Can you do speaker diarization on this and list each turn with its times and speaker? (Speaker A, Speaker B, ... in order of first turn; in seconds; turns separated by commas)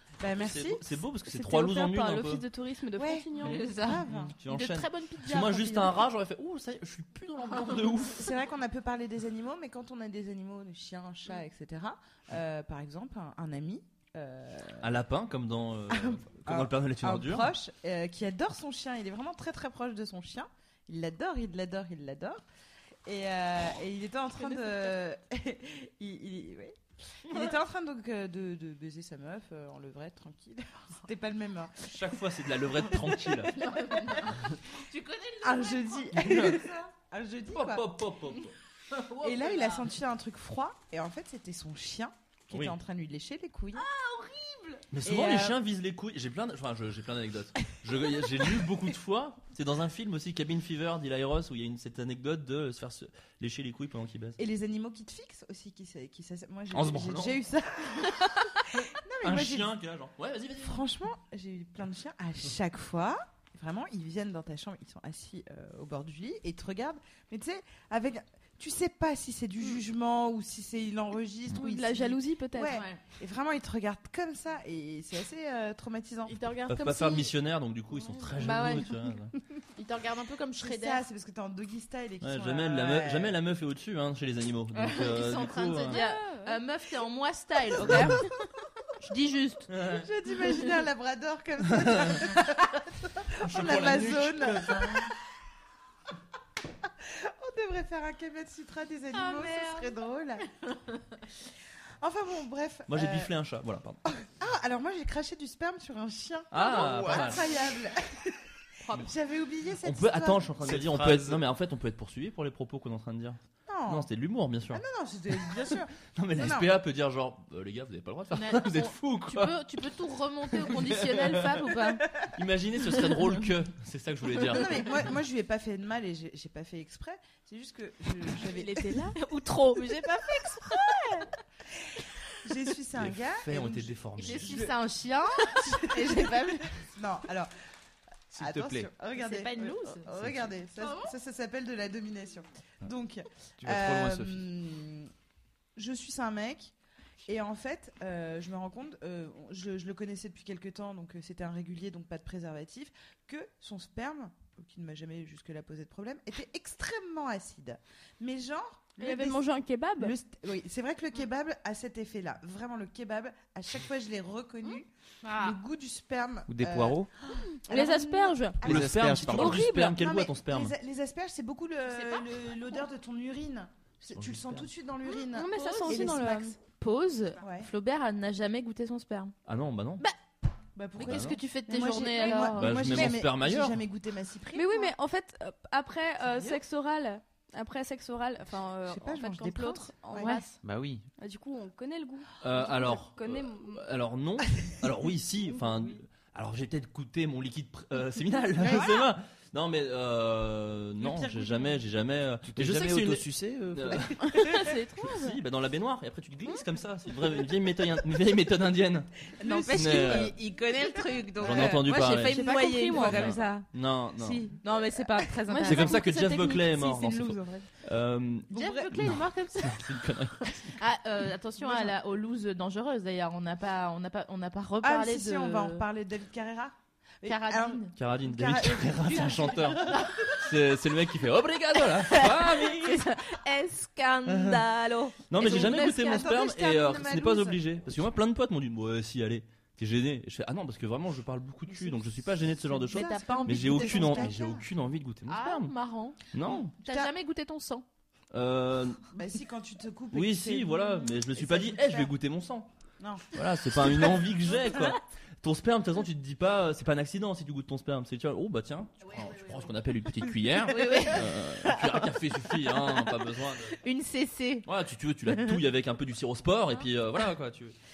Speaker A: 0.2-0.8, Speaker B: 0.2-2.4, Speaker C: 1.3-3.7, Speaker A: 3.0-4.3, Speaker D: 3.4-6.0, Speaker B: 4.0-8.3, Speaker A: 8.2-14.9, Speaker B: 14.8-17.5, Speaker A: 15.9-22.4, Speaker A: 23.1-31.9, Speaker C: 24.4-24.7, Speaker B: 31.9-33.6, Speaker A: 32.9-33.2, Speaker D: 33.5-36.2, Speaker A: 35.4-37.9, Speaker B: 36.1-36.7, Speaker B: 37.5-38.5, Speaker D: 38.9-39.9, Speaker A: 39.2-43.9, Speaker D: 43.8-44.9, Speaker B: 44.9-54.4, Speaker A: 45.0-45.6, Speaker A: 54.4-59.7, Speaker B: 56.7-57.4, Speaker B: 59.2-60.8, Speaker A: 60.6-76.3, Speaker C: 71.5-72.8, Speaker D: 72.7-73.0, Speaker D: 76.3-77.3, Speaker B: 76.7-79.3, Speaker C: 78.0-78.4, Speaker D: 78.4-78.9, Speaker D: 79.7-81.0, Speaker A: 80.6-83.4, Speaker B: 82.2-86.0, Speaker D: 84.7-88.3, Speaker C: 85.8-86.6, Speaker B: 87.8-88.2, Speaker D: 89.0-89.7, Speaker B: 89.7-90.0, Speaker A: 89.9-95.0, Speaker B: 91.7-92.3, Speaker B: 93.4-95.1, Speaker A: 97.0-100.5, Speaker D: 99.1-100.0, Speaker A: 102.0-103.3, Speaker B: 102.9-104.0, Speaker A: 104.2-108.4, Speaker B: 106.5-107.4, Speaker E: 106.8-107.2, Speaker D: 108.8-109.1, Speaker A: 108.9-110.7, Speaker B: 109.8-119.6, Speaker E: 110.6-111.4, Speaker A: 113.7-114.1, Speaker A: 114.7-116.7, Speaker D: 118.3-122.1, Speaker B: 120.5-121.7, Speaker B: 122.2-125.2, Speaker A: 124.5-128.9, Speaker C: 128.4-129.2, Speaker D: 129.2-131.3, Speaker A: 132.4-134.8, Speaker B: 132.9-134.7, Speaker D: 134.2-136.7, Speaker A: 135.5-137.5, Speaker E: 138.3-138.9, Speaker A: 138.3-145.1, Speaker D: 139.2-140.1, Speaker D: 140.8-141.1, Speaker E: 143.6-144.4, Speaker A: 145.8-146.7, Speaker A: 147.3-159.4, Speaker C: 159.0-160.1, Speaker A: 160.0-176.6, Speaker D: 165.2-165.6, Speaker E: 166.5-167.1, Speaker C: 167.5-168.6, Speaker E: 168.6-169.7, Speaker B: 168.6-170.7, Speaker C: 169.3-170.0, Speaker D: 171.9-172.4, Speaker B: 174.1-174.7, Speaker C: 175.1-176.6, Speaker D: 175.5-179.3, Speaker A: 177.4-177.7, Speaker B: 179.5-180.0, Speaker A: 180.8-184.9, Speaker D: 181.0-183.2, Speaker B: 181.1-181.4, Speaker B: 182.5-183.8, Speaker C: 184.5-190.6, Speaker A: 186.3-186.6, Speaker A: 188.9-190.3, Speaker D: 190.2-190.4, Speaker E: 190.6-191.1, Speaker C: 191.2-193.8, Speaker B: 192.4-209.2, Speaker A: 198.6-199.0, Speaker A: 201.0-201.7, Speaker E: 202.4-204.2, Speaker C: 204.2-205.4, Speaker A: 209.4-210.4, Speaker D: 209.4-216.2, Speaker B: 209.7-210.3, Speaker A: 210.9-211.8, Speaker B: 211.4-212.4, Speaker C: 212.1-213.4, Speaker B: 212.9-214.5, Speaker A: 213.0-213.3, Speaker C: 215.5-216.7, Speaker B: 215.6-220.7, Speaker D: 216.7-217.6, Speaker A: 216.8-217.3, Speaker D: 218.5-225.9, Speaker A: 218.5-219.2, Speaker A: 221.6-221.9, Speaker A: 224.8-230.2, Speaker D: 227.2-227.9, Speaker B: 228.0-233.1, Speaker D: 229.7-230.4, Speaker D: 232.0-236.3, Speaker B: 234.3-234.6, Speaker B: 235.3-245.7, Speaker A: 235.4-237.6, Speaker D: 241.7-242.0, Speaker D: 242.7-244.4, Speaker A: 242.9-244.7, Speaker D: 245.3-246.2, Speaker B: 246.3-246.7, Speaker A: 246.4-247.1, Speaker D: 246.8-247.9, Speaker B: 248.3-249.1, Speaker A: 249.1-252.1, Speaker B: 250.1-252.7, Speaker A: 253.0-254.2, Speaker B: 253.3-263.8, Speaker D: 260.7-262.0, Speaker D: 262.8-263.1, Speaker D: 263.8-264.7, Speaker B: 264.7-267.8, Speaker D: 265.3-265.6